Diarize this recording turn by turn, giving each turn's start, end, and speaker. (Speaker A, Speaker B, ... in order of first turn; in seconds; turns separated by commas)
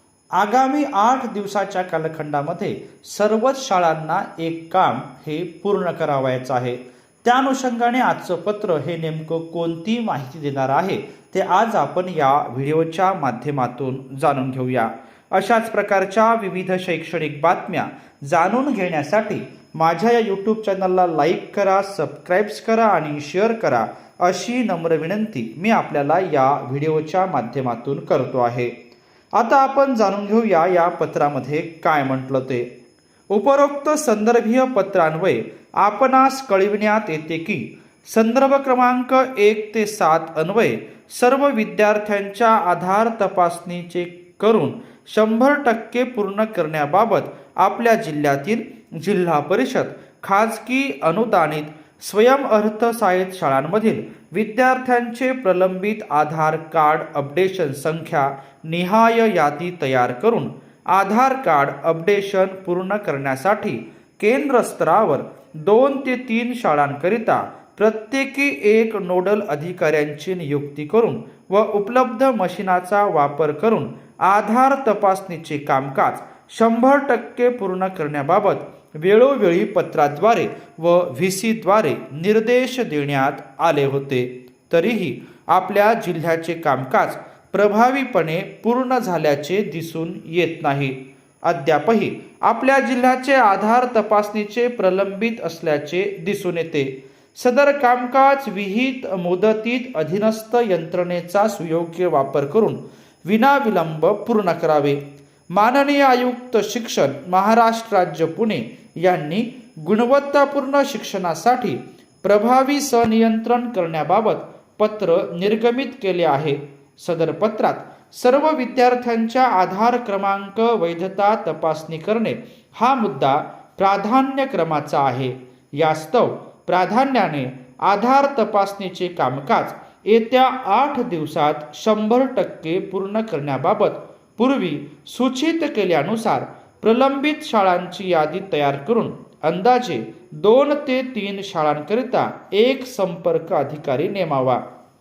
Speaker A: 0.3-28.7, Speaker A: 29.3-32.7, Speaker A: 33.3-144.6